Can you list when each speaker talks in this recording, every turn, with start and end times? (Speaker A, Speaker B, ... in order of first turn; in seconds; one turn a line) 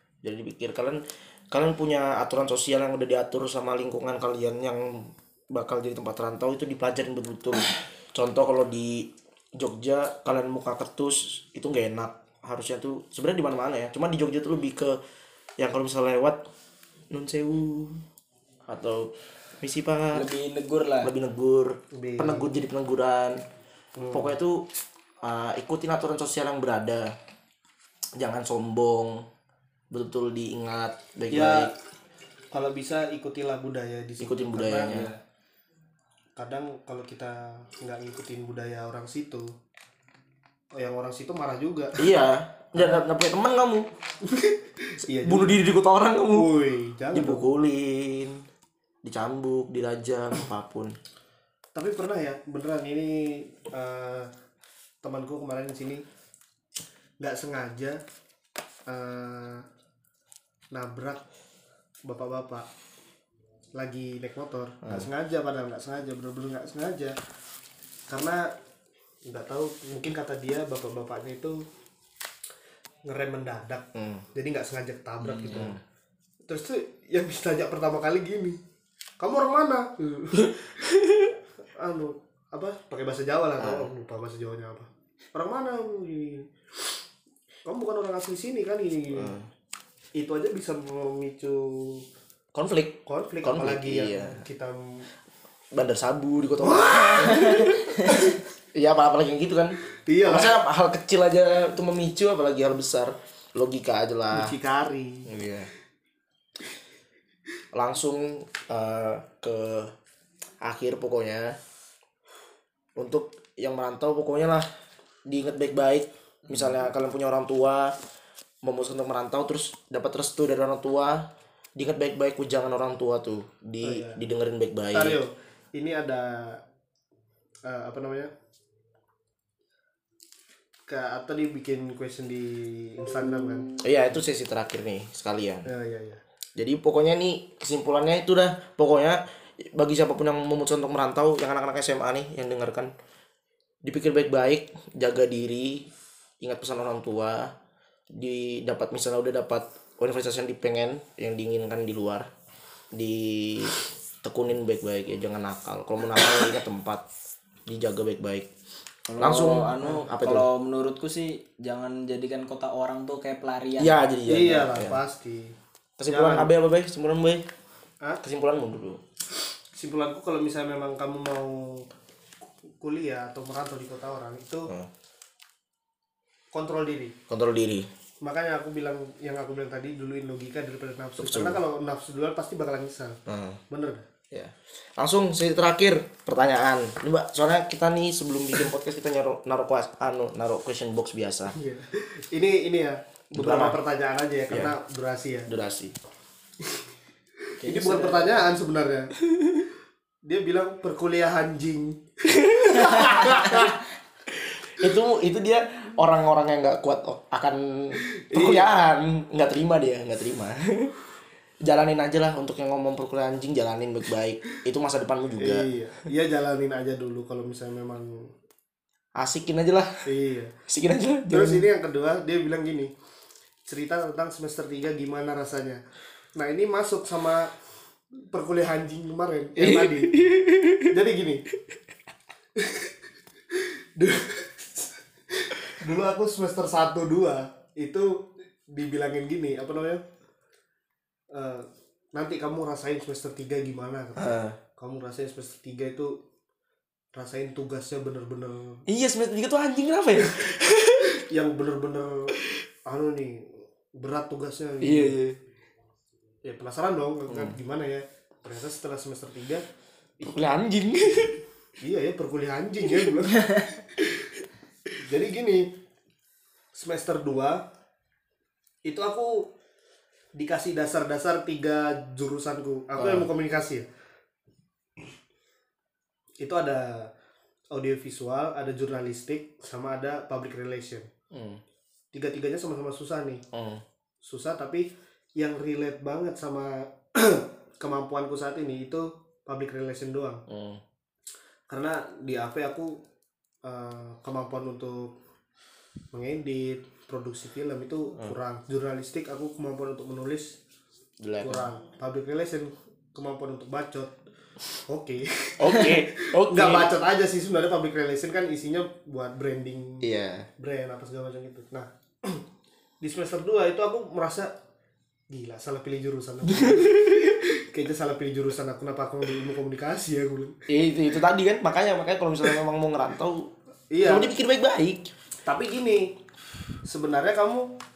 Speaker A: 0.2-15.0
Speaker A: 15.6-16.4
Speaker A: 17.1-18.0
Speaker A: 18.7-20.2
Speaker B: 20.1-21.1
Speaker A: 21.0-23.4
Speaker C: 21.9-22.5
Speaker C: 24.0-24.4
Speaker A: 24.1-24.6
Speaker A: 25.2-27.1
Speaker A: 28.2-29.2
Speaker A: 29.9-31.7
Speaker C: 31.3-31.7
Speaker C: 32.5-35.1
Speaker A: 34.2-35.1
Speaker B: 34.9-35.1
Speaker C: 36.4-39.5
Speaker C: 40.7-42.0
Speaker A: 42.0-43.9
Speaker C: 42.7-43.0
Speaker C: 44.2-45.6
Speaker A: 45.2-46.5
Speaker C: 46.3-47.5
Speaker A: 47.1-48.4
Speaker A: 49.0-50.9
Speaker C: 51.7-54.3
Speaker C: 55.0-56.0
Speaker C: 57.2-58.0
Speaker C: 58.9-59.6
Speaker C: 60.7-61.2
Speaker C: 62.0-62.7
Speaker C: 63.8-67.2
Speaker A: 64.8-65.1
Speaker C: 68.1-68.5
Speaker C: 69.2-71.6
Speaker C: 73.0-75.8
Speaker A: 73.9-74.2
Speaker A: 75.2-75.8
Speaker C: 76.5-78.6
Speaker C: 79.2-80.8
Speaker A: 80.9-81.2
Speaker C: 81.8-87.0
Speaker A: 83.6-83.9
Speaker C: 87.7-89.4
Speaker A: 89.1-89.5
Speaker C: 90.2-92.0
Speaker A: 92.5-94.4
Speaker C: 93.0-95.1
Speaker A: 95.7-104.5
Speaker C: 96.6-98.4
Speaker B: 97.4-98.1
Speaker C: 100.0-100.6
Speaker C: 104.3-105.3
Speaker A: 105.2-105.7
Speaker A: 107.7-109.9
Speaker A: 110.6-111.6
Speaker A: 113.0-114.7
Speaker A: 115.3-117.9
Speaker B: 116.5-116.7
Speaker A: 118.6-121.2
Speaker A: 121.8-125.2
Speaker C: 123.8-124.2
Speaker C: 124.9-126.6
Speaker C: 127.7-128.3
Speaker C: 130.9-133.7
Speaker A: 133.8-135.7
Speaker C: 135.7-136.2
Speaker A: 136.6-142.9
Speaker A: 143.8-145.9
Speaker A: 146.4-147.5
Speaker A: 148.1-152.3
Speaker A: 152.9-157.0
Speaker A: 157.7-158.5
Speaker B: 159.1-164.1
Speaker A: 159.2-160.5
Speaker A: 163.8-165.0
Speaker C: 164.3-165.5
Speaker A: 166.0-167.4
Speaker C: 166.1-166.5
Speaker A: 168.2-169.0
Speaker C: 169.7-171.9
Speaker C: 172.7-174.7
Speaker C: 176.5-177.1
Speaker A: 177.3-177.9
Speaker C: 178.2-183.2
Speaker A: 181.2-181.6
Speaker A: 183.3-183.6
Speaker C: 183.7-184.1
Speaker A: 184.3-191.6
Speaker C: 191.5-195.5
Speaker A: 193.3-193.8
Speaker A: 194.5-194.7
Speaker A: 195.5-195.9
Speaker C: 197.5-199.1
Speaker B: 197.6-198.4
Speaker C: 200.2-203.8
Speaker A: 202.2-203.7
Speaker A: 204.5-210.9
Speaker C: 208.1-208.7
Speaker A: 211.6-215.7
Speaker C: 215.4-218.3
Speaker A: 219.2-220.1
Speaker C: 220.1-220.5
Speaker A: 220.7-221.7
Speaker C: 221.3-222.9
Speaker C: 223.7-225.8
Speaker C: 226.4-227.5
Speaker C: 228.3-230.2
Speaker A: 229.6-230.9
Speaker C: 230.9-231.4
Speaker C: 232.5-232.9
Speaker C: 233.5-240.0
Speaker C: 241.3-246.1
Speaker A: 244.2-244.6
Speaker C: 247.1-248.8
Speaker A: 248.9-251.1
Speaker C: 251.1-252.3
Speaker C: 252.8-255.2
Speaker A: 254.8-255.3
Speaker C: 256.4-259.6
Speaker A: 257.3-257.6
Speaker A: 260.2-261.4
Speaker C: 261.8-263.5
Speaker C: 265.0-265.7
Speaker C: 266.7-267.6
Speaker C: 268.8-269.5
Speaker C: 270.3-273.9
Speaker A: 273.0-273.2
Speaker C: 276.4-277.1
Speaker C: 277.7-281.1
Speaker A: 281.3-281.6
Speaker C: 282.1-283.4
Speaker A: 283.5-283.8
Speaker C: 284.2-290.4
Speaker A: 290.5-290.8
Speaker C: 291.7-293.0
Speaker C: 293.6-295.1
Speaker C: 296.1-300.6
Speaker A: 301.2-301.6
Speaker C: 301.4-304.1
Speaker C: 304.9-310.0
Speaker A: 305.6-306.9
Speaker A: 310.0-310.5
Speaker C: 310.6-312.4
Speaker C: 313.0-314.5
Speaker C: 315.3-320.6
Speaker A: 316.6-317.2
Speaker A: 320.7-323.5
Speaker C: 323.9-324.4
Speaker A: 324.0-325.1
Speaker C: 325.4-326.2
Speaker C: 326.8-327.7